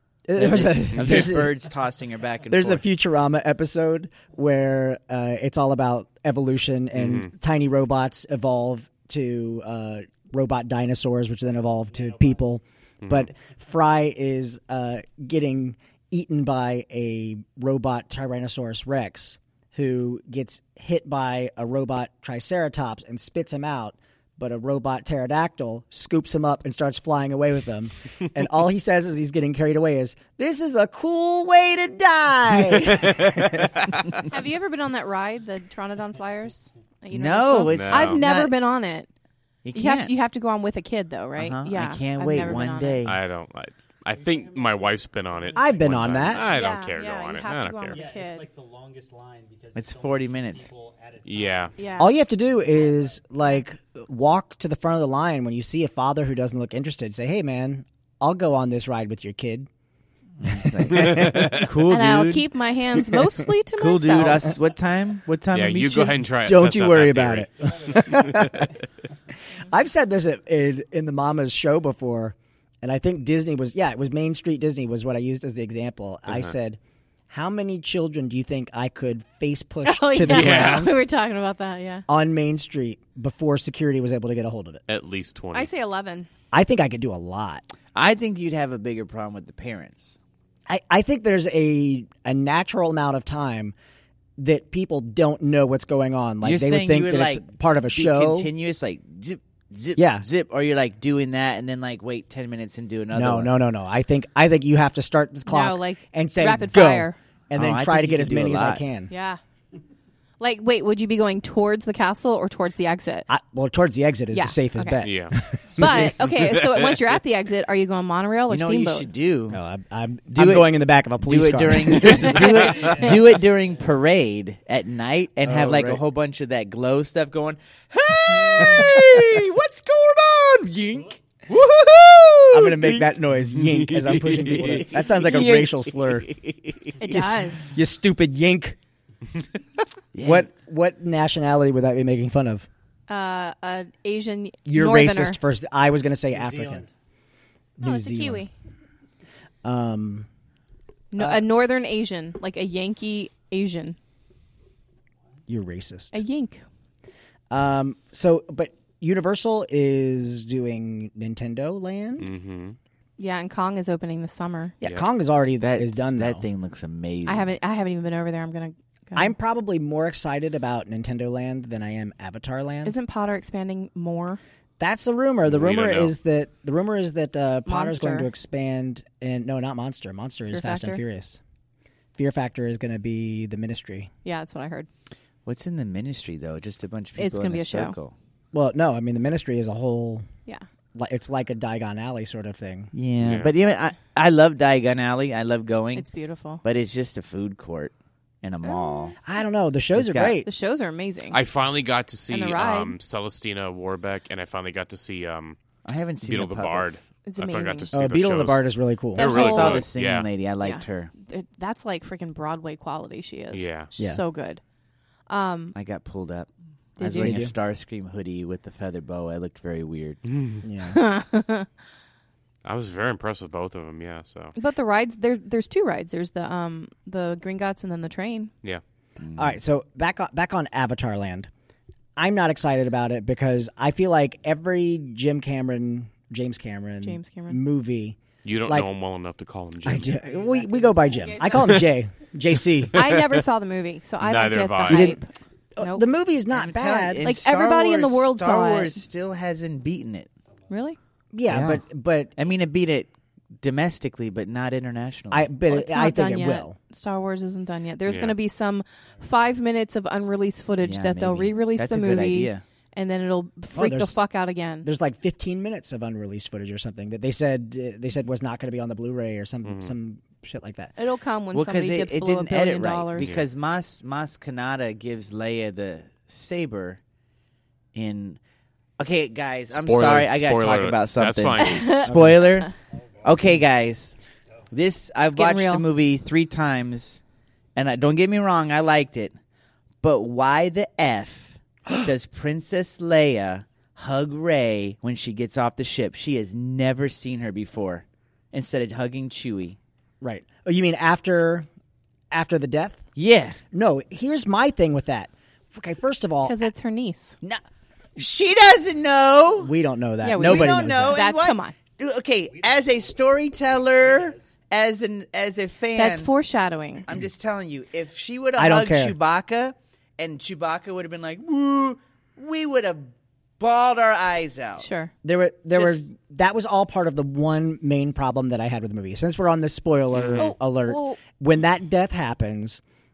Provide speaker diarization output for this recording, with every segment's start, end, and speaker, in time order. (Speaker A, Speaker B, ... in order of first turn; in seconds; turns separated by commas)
Speaker A: 0.3-1.6, Speaker B: 0.4-2.8, Speaker C: 1.0-1.3, Speaker A: 2.5-33.7, Speaker C: 7.0-7.3, Speaker D: 11.9-12.3, Speaker C: 13.0-13.3, Speaker C: 32.7-34.0, Speaker E: 34.3-39.1, Speaker B: 37.1-38.5, Speaker C: 37.7-38.2, Speaker B: 39.6-40.1, Speaker E: 39.7-43.0, Speaker B: 41.4-43.2, Speaker C: 43.0-48.0, Speaker D: 44.1-46.7, Speaker A: 45.5-46.4, Speaker E: 46.4-48.5, Speaker D: 47.9-52.0, Speaker B: 49.8-50.7, Speaker C: 51.3-51.7, Speaker E: 51.8-52.1, Speaker A: 52.0-59.7, Speaker D: 52.7-53.0, Speaker B: 60.4-62.5, Speaker A: 60.5-61.5, Speaker C: 60.9-61.6, Speaker E: 61.9-64.5, Speaker B: 63.8-66.2, Speaker C: 65.5-68.5, Speaker A: 66.4-68.7, Speaker A: 69.7-76.8, Speaker A: 77.3-81.0, Speaker E: 79.8-82.1, Speaker C: 80.2-80.9, Speaker A: 82.1-84.8, Speaker C: 84.9-85.7, Speaker E: 85.5-86.3, Speaker A: 86.5-87.6, Speaker B: 88.0-90.2, Speaker A: 90.7-93.7, Speaker A: 94.4-98.5, Speaker B: 96.4-103.5, Speaker A: 100.0-100.2, Speaker A: 103.1-109.1, Speaker E: 105.5-107.2, Speaker B: 107.5-108.8, Speaker E: 109.1-109.4, Speaker E: 110.4-113.3, Speaker A: 113.3-116.2, Speaker E: 114.3-115.0, Speaker C: 115.0-115.4, Speaker E: 115.7-119.1, Speaker B: 118.5-119.6, Speaker A: 119.5-122.9, Speaker B: 120.3-133.1, Speaker D: 122.7-123.2, Speaker A: 125.4-126.0, Speaker A: 132.5-136.3, Speaker B: 134.1-136.9, Speaker C: 134.2-134.6, Speaker E: 137.0-137.7, Speaker A: 137.0-138.8, Speaker B: 140.1-140.5, Speaker A: 140.2-142.7, Speaker E: 143.1-145.4, Speaker A: 144.7-146.9, Speaker D: 146.3-146.9, Speaker A: 147.8-148.4, Speaker E: 147.8-148.5, Speaker A: 149.6-150.3, Speaker E: 151.1-154.0, Speaker A: 151.2-151.5, Speaker A: 155.5-156.2, Speaker E: 156.1-156.6, Speaker A: 157.5-162.3, Speaker C: 162.2-162.8, Speaker E: 163.2-164.7, Speaker A: 164.8-166.4, Speaker B: 165.6-167.5, Speaker E: 167.3-169.3, Speaker A: 169.2-172.9, Speaker E: 172.8-174.4, Speaker A: 174.8-181.4, Speaker C: 175.5-176.1, Speaker E: 177.7-178.3, Speaker E: 180.5-181.0, Speaker A: 182.2-184.1, Speaker E: 184.2-184.9, Speaker B: 185.4-188.2, Speaker E: 187.2-188.0, Speaker A: 188.5-190.3, Speaker A: 190.9-192.9, Speaker B: 192.9-196.1, Speaker C: 193.2-193.5, Speaker E: 195.9-196.6, Speaker B: 196.6-199.2, Speaker E: 198.6-199.1, Speaker A: 199.2-200.5, Speaker B: 199.9-200.4, Speaker E: 200.4-201.4, Speaker C: 201.3-205.6, Speaker E: 202.3-202.9, Speaker B: 205.8-207.0, Speaker C: 206.2-210.3, Speaker E: 207.2-207.9, Speaker A: 207.9-209.4, Speaker E: 209.2-209.9, Speaker B: 209.2-211.1, Speaker E: 210.6-214.6, Speaker C: 213.5-213.9, Speaker E: 215.3-215.8, Speaker B: 215.7-220.2, Speaker E: 217.0-217.4, Speaker A: 217.1-217.5, Speaker A: 220.6-221.0, Speaker E: 220.9-221.7, Speaker C: 222.7-224.6, Speaker E: 224.6-228.5, Speaker B: 229.2-229.6, Speaker A: 229.4-231.5, Speaker A: 232.2-238.9, Speaker E: 237.0-237.6, Speaker C: 238.4-240.1, Speaker A: 239.8-243.0, Speaker D: 240.1-241.8, Speaker E: 242.9-246.1, Speaker C: 244.2-245.2, Speaker A: 244.9-245.2, Speaker A: 245.8-247.3, Speaker B: 246.5-250.3, Speaker E: 247.2-249.0, Speaker E: 250.7-251.0, Speaker A: 251.3-252.3, Speaker B: 251.5-251.8, Speaker B: 252.4-255.5, Speaker A: 255.3-256.8, Speaker E: 255.7-264.9, Speaker C: 258.1-258.4, Speaker B: 260.8-262.6, Speaker A: 263.7-264.1, Speaker A: 264.8-270.9, Speaker C: 269.6-269.9, Speaker E: 271.0-273.3, Speaker B: 271.5-277.0, Speaker C: 273.2-273.5, Speaker B: 277.9-278.4, Speaker B: 279.0-282.7, Speaker C: 279.7-282.1, Speaker E: 281.6-282.1, Speaker A: 282.1-282.4, Speaker D: 283.1-283.5, Speaker B: 283.2-284.2, Speaker B: 284.7-287.2, Speaker E: 285.3-285.9, Speaker B: 287.8-289.4, Speaker B: 290.0-299.8, Speaker A: 300.2-301.7, Speaker A: 302.3-303.0, Speaker B: 303.2-303.6, Speaker A: 303.7-306.6, Speaker E: 306.4-307.4, Speaker B: 308.2-309.8, Speaker A: 309.6-311.2, Speaker E: 310.2-311.8, Speaker B: 310.4-316.3, Speaker D: 312.5-314.6, Speaker E: 315.9-317.1, Speaker B: 317.1-324.9, Speaker A: 318.6-319.1, Speaker E: 324.8-325.1, Speaker A: 325.2-332.8, Speaker B: 325.7-326.0, Speaker C: 330.2-330.5, Speaker E: 330.4-331.2